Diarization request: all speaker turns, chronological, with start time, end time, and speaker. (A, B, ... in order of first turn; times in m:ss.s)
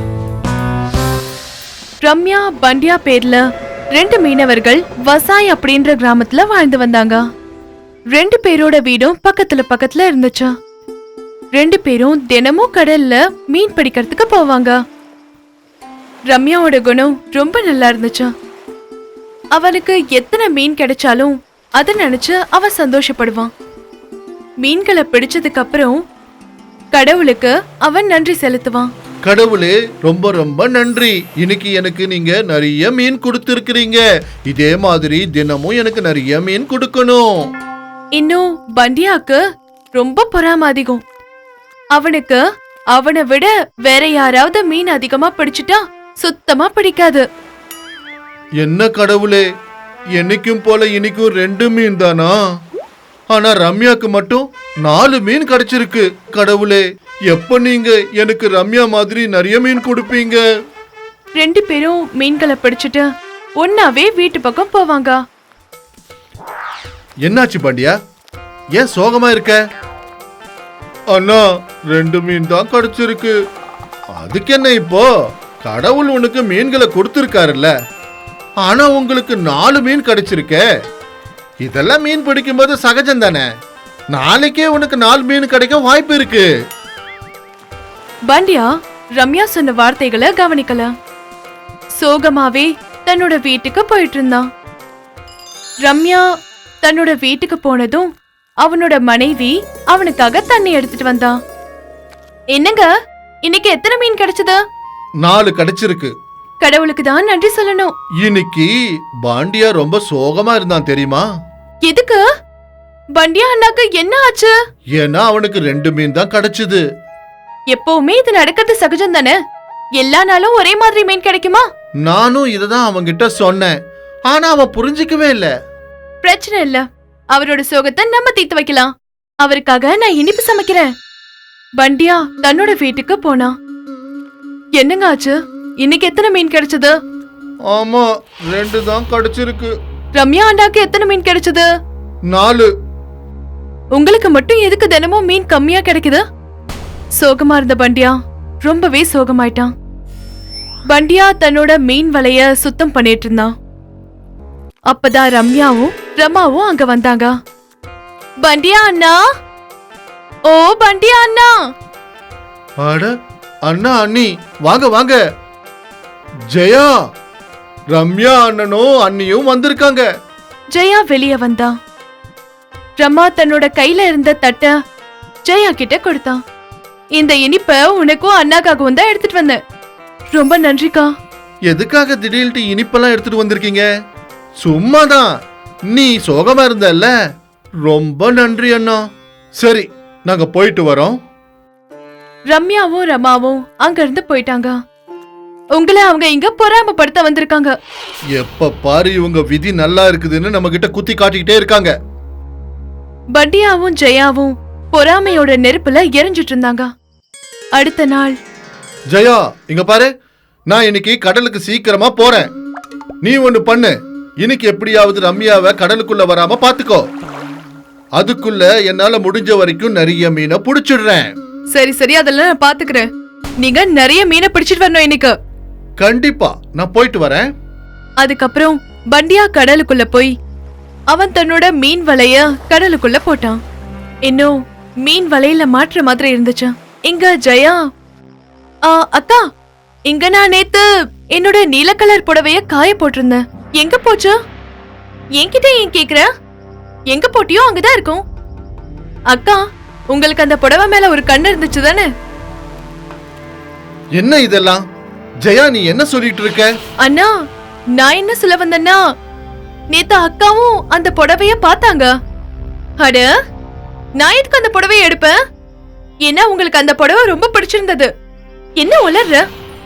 0:02.0-0:03.4 A
0:03.9-0:07.2 A
0:08.1-0:10.5 A
0:11.6-0:14.8 A
0:16.3-0:18.3 A
0:19.5-0:23.5 A
0:24.6-0:26.0 A
0:26.9-0:28.9 A
0:29.2-0:37.3 B
0:38.2-0:39.4 A
0:40.0-0:41.0 A
0:41.9-0:42.4 A
0:42.9-0:47.2 A
0:48.6-0:49.4 B
0:50.1-0:52.3 B
0:53.3-1:00.4 B
1:01.4-1:03.0 A
1:03.6-1:05.2 A
1:07.2-1:08.0 B
1:08.7-1:09.6 B
1:11.1-1:13.3 B
1:14.2-1:15.1 B
1:15.6-1:17.7 B
1:18.6-1:20.6 B
1:21.6-1:23.4 B
1:24.1-1:26.5 B
1:28.3-1:30.9 A
1:32.0-1:34.4 A
1:35.8-1:36.2 A
1:36.8-1:38.1 A
1:38.6-1:41.3 A
1:42.5-1:42.9 A
1:43.4-1:44.6 A
1:45.2-1:46.1 B
1:46.6-1:47.9 A
1:48.2-1:48.7 B
1:49.2-1:51.3 B
1:51.8-1:52.2 A
1:53.2-1:54.5 A
1:55.0-1:56.8 B
1:57.7-1:59.3 A
2:00.0-2:01.6 A
2:02.0-2:03.7 B
2:04.3-2:05.5 B
2:06.2-2:08.9 A
2:09.4-2:10.9 A
2:11.8-2:13.5 A
2:14.8-2:16.9 A
2:17.7-2:19.7 B
2:20.2-2:21.6 A
2:22.3-2:22.7 B
2:23.9-2:26.2 A
2:27.2-2:29.7 A
2:30.9-2:33.5 A
2:34.9-2:37.3 A
2:38.4-2:39.2 A
2:40.5-2:41.5 A
2:42.8-2:43.1 B
2:43.6-2:45.2 B
2:46.5-2:46.9 B
2:47.9-2:50.1 B
2:50.7-2:51.7 A
2:53.0-2:54.7 A
2:55.4-2:56.4 A
2:57.2-2:59.6 A
3:00.3-3:01.1 A
3:01.7-3:03.9 B
3:04.6-3:05.3 B
3:05.9-3:07.1 B
3:07.8-3:09.0 B
3:09.6-3:11.2 B
3:12.5-3:14.7 A
3:15.7-3:17.7 A
3:18.3-3:21.9 B
3:23.3-3:26.9 A
3:27.8-3:28.3 A
3:29.1-3:30.1 B
3:30.7-3:32.4 B
3:33.2-3:37.0 B
3:38.2-3:41.3 B
3:41.7-3:43.0 A
3:43.6-3:45.3 A
3:46.0-3:47.4 B
3:48.2-3:50.3 A
3:51.1-3:53.6 A
3:54.2-3:57.8 A
3:58.9-3:59.4 A
4:00.1-4:04.4 A
4:05.4-4:06.3 A
4:07.1-4:08.2 A
4:09.3-4:09.6 A
4:10.1-4:12.1 A
4:14.2-4:14.8 B
4:15.4-4:16.6 B
4:17.0-4:17.3 A
4:18.0-4:19.0 A
4:19.9-4:22.1 A
4:23.0-4:23.3 A
4:24.2-4:25.3 A
4:26.2-4:28.1 A
4:28.8-4:29.4 A